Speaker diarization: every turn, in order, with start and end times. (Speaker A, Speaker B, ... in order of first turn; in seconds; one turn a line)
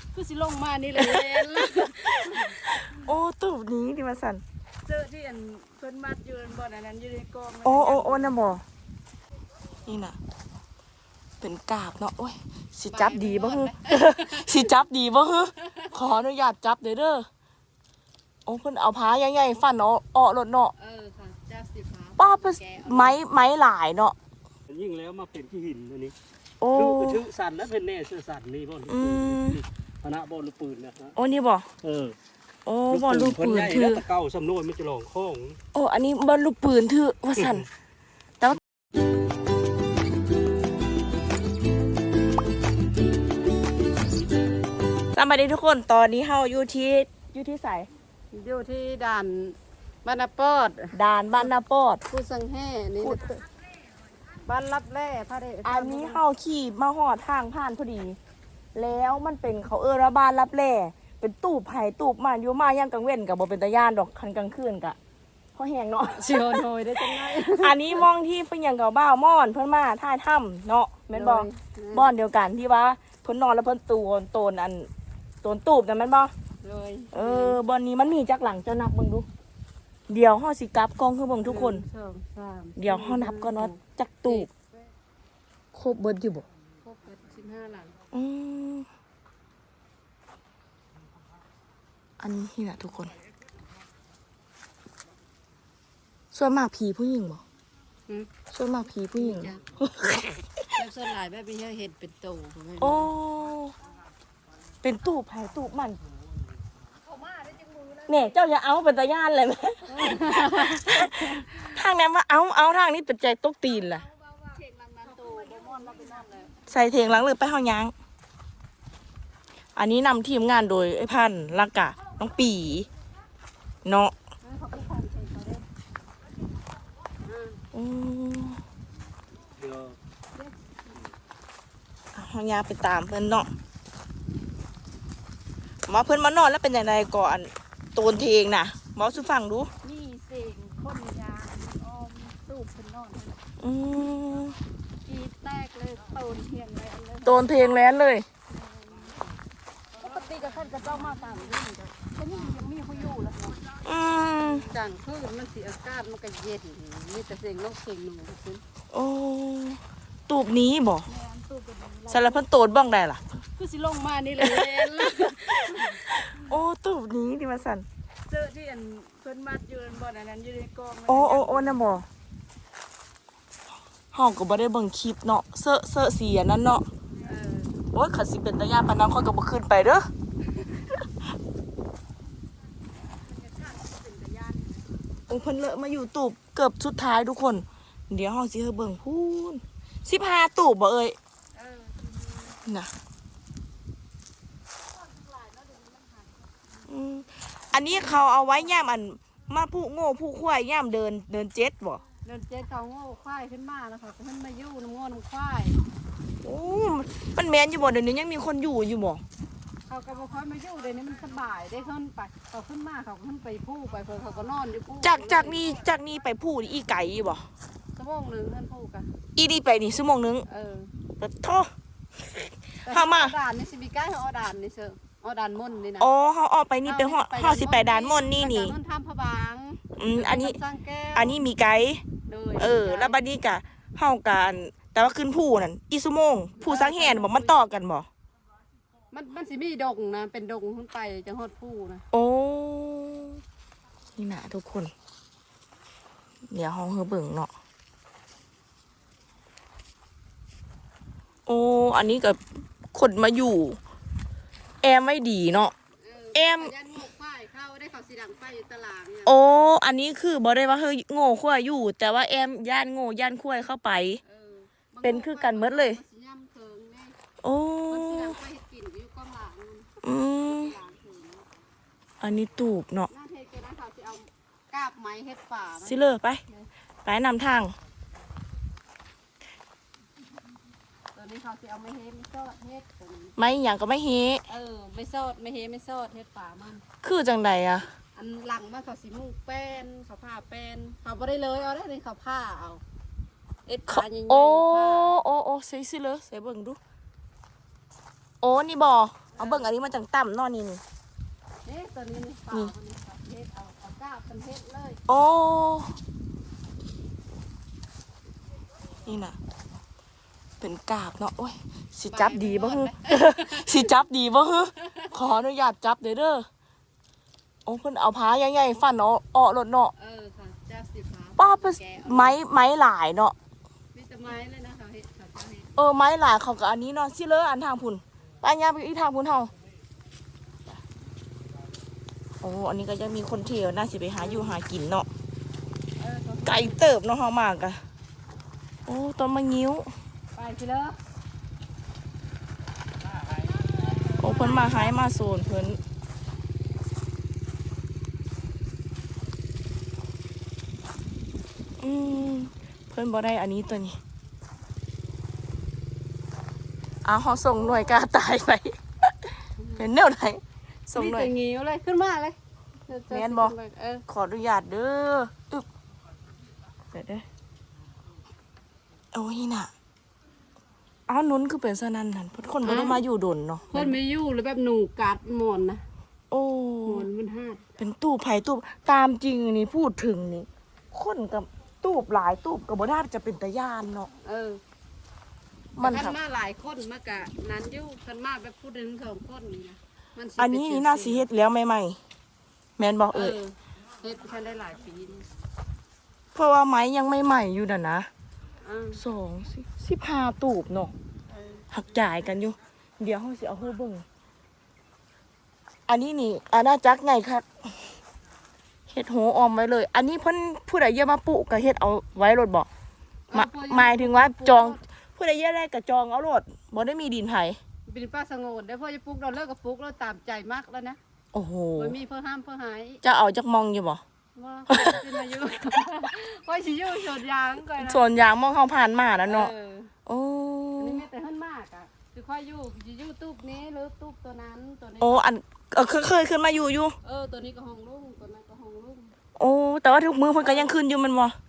Speaker A: 0.1-2.6
Speaker B: 1.0-4.4
Speaker A: 4.8-8.5
Speaker B: 7.6-8.6
Speaker B: 9.9-10.2
Speaker B: 11.4-17.3
Speaker A: 12.9-14.8
Speaker B: 18.4-20.7
Speaker A: 20.7-23.2
Speaker B: 22.2-24.1
Speaker C: 24.7-26.1
Speaker B: 26.6-27.2
Speaker C: 26.7-31.1
Speaker B: 28.9-29.6
Speaker B: 31.1-31.7
Speaker C: 31.8-32.2
Speaker B: 32.7-34.0
Speaker C: 32.9-35.6
Speaker B: 35.7-37.7
Speaker B: 45.1-47.9
Speaker A: 48.3-51.5
Speaker B: 50.9-52.0
Speaker A: 52.1-53.5
Speaker A: 54.5-56.2
Speaker B: 55.6-58.2
Speaker B: 58.8-65.0
Speaker B: 65.5-74.9
Speaker A: 66.1-68.1
Speaker A: 71.1-72.1
Speaker B: 75.4-76.3
Speaker A: 76.6-77.6
Speaker B: 77.1-79.3
Speaker B: 80.1-81.8
Speaker A: 81.4-84.5
Speaker B: 82.8-84.5
Speaker B: 85.7-86.5
Speaker A: 86.8-87.9
Speaker B: 88.1-88.9
Speaker B: 92.2-93.1
Speaker B: 96.3-97.4
Speaker B: 98.5-100.7
Speaker A: 99.1-99.6
Speaker A: 100.8-103.1
Speaker B: 102.8-103.8
Speaker B: 104.8-106.0
Speaker A: 107.0-108.4
Speaker B: 108.1-114.0
Speaker A: 109.9-111.6
Speaker A: 114.1-116.6
Speaker B: 116.7-117.9
Speaker B: 119.8-122.9
Speaker B: 123.8-124.1
Speaker A: 124.4-125.7
Speaker A: 127.2-127.6
Speaker B: 127.7-128.6
Speaker C: 129.6-130.0
Speaker A: 130.3-130.9
Speaker B: 132.1-133.5
Speaker B: 135.9-139.7
Speaker A: 139.8-143.4
Speaker B: 143.6-144.6
Speaker A: 145.1-148.0
Speaker B: 147.2-148.2
Speaker A: 148.5-149.4
Speaker A: 149.9-153.7
Speaker B: 153.8-154.7
Speaker A: 154.3-158.6
Speaker B: 158.9-161.1
Speaker A: 161.1-162.4
Speaker B: 162.1-163.4
Speaker A: 163.6-166.5
Speaker B: 164.4-167.8
Speaker A: 168.3-171.8
Speaker B: 171.1-172.1
Speaker B: 174.1-176.8
Speaker A: 177.2-177.8
Speaker B: 177.9-180.1
Speaker A: 183.2-185.0
Speaker B: 185.3-191.2
Speaker A: 191.5-192.6
Speaker A: 195.4-196.2
Speaker B: 196.9-202.0
Speaker A: 197.9-198.7
Speaker A: 202.2-205.8
Speaker B: 206.4-209.2
Speaker A: 209.9-215.8
Speaker B: 215.0-217.5
Speaker A: 217.9-219.1
Speaker B: 219.3-220.4
Speaker A: 220.5-220.9
Speaker B: 221.2-221.7
Speaker B: 222.3-223.3
Speaker A: 222.8-226.1
Speaker B: 226.0-228.8
Speaker A: 226.8-231.4
Speaker B: 230.0-230.6
Speaker B: 231.1-232.1
Speaker A: 232.3-233.2
Speaker B: 232.6-238.1
Speaker A: 236.6-237.6
Speaker A: 239.1-242.1
Speaker B: 242.1-243.4
Speaker B: 244.2-244.9
Speaker B: 246.5-247.5
Speaker B: 251.5-252.4
Speaker B: 252.9-253.8
Speaker B: 254.8-255.7
Speaker A: 256.0-259.4
Speaker B: 256.3-256.7
Speaker B: 259.2-264.2
Speaker A: 264.2-267.2
Speaker B: 265.0-266.0
Speaker B: 267.4-268.4
Speaker A: 267.9-271.4
Speaker B: 270.0-270.8
Speaker B: 272.2-273.1
Speaker A: 273.1-276.7
Speaker B: 275.8-276.4
Speaker B: 277.1-277.7
Speaker A: 281.1-283.4
Speaker B: 283.4-284.4
Speaker A: 284.5-286.8
Speaker B: 287.0-287.9
Speaker A: 288.1-292.8
Speaker A: 293.7-295.2
Speaker B: 293.9-296.8
Speaker B: 298.4-300.8
Speaker A: 299.3-299.7
Speaker A: 301.6-305.0
Speaker B: 305.1-305.9
Speaker B: 309.1-309.4
Speaker B: 310.6-316.5
Speaker A: 312.1-314.0
Speaker A: 314.8-315.1
Speaker B: 317.7-319.9
Speaker A: 319.9-322.4
Speaker B: 321.4-323.4
Speaker A: 323.9-325.7
Speaker B: 325.8-329.5
Speaker B: 332.4-335.1
Speaker A: 334.2-334.6
Speaker A: 336.0-336.8
Speaker B: 336.4-337.8
Speaker B: 338.9-339.9
Speaker A: 340.4-341.0
Speaker A: 343.5-344.9
Speaker B: 344.1-345.8
Speaker B: 351.8-354.0
Speaker B: 357.0-361.3
Speaker A: 359.6-359.9
Speaker A: 360.9-362.4
Speaker A: 362.9-364.0
Speaker B: 363.1-363.5
Speaker B: 364.1-365.7
Speaker B: 366.9-367.2
Speaker B: 369.1-369.7
Speaker B: 371.1-374.0
Speaker A: 372.6-373.0
Speaker A: 373.7-375.8
Speaker B: 376.3-377.1
Speaker A: 376.9-377.6
Speaker B: 377.8-384.1
Speaker A: 384.2-384.6
Speaker B: 385.8-386.2
Speaker A: 385.8-391.3
Speaker B: 390.4-392.0
Speaker B: 392.8-393.4
Speaker A: 393.1-395.3
Speaker B: 396.4-398.1
Speaker A: 398.6-399.0
Speaker B: 398.9-400.9
Speaker B: 401.7-404.0
Speaker B: 405.9-407.5
Speaker B: 408.9-412.7
Speaker A: 413.3-414.8
Speaker B: 413.3-417.6
Speaker A: 417.9-421.0
Speaker B: 421.3-421.9
Speaker A: 421.8-423.0
Speaker B: 423.0-424.0
Speaker A: 424.4-428.0
Speaker B: 424.7-425.2
Speaker B: 427.8-429.5
Speaker A: 429.3-429.9
Speaker B: 430.1-431.0
Speaker A: 430.8-435.3
Speaker B: 435.0-436.9
Speaker A: 437.0-439.1
Speaker B: 439.4-441.4
Speaker A: 440.4-440.8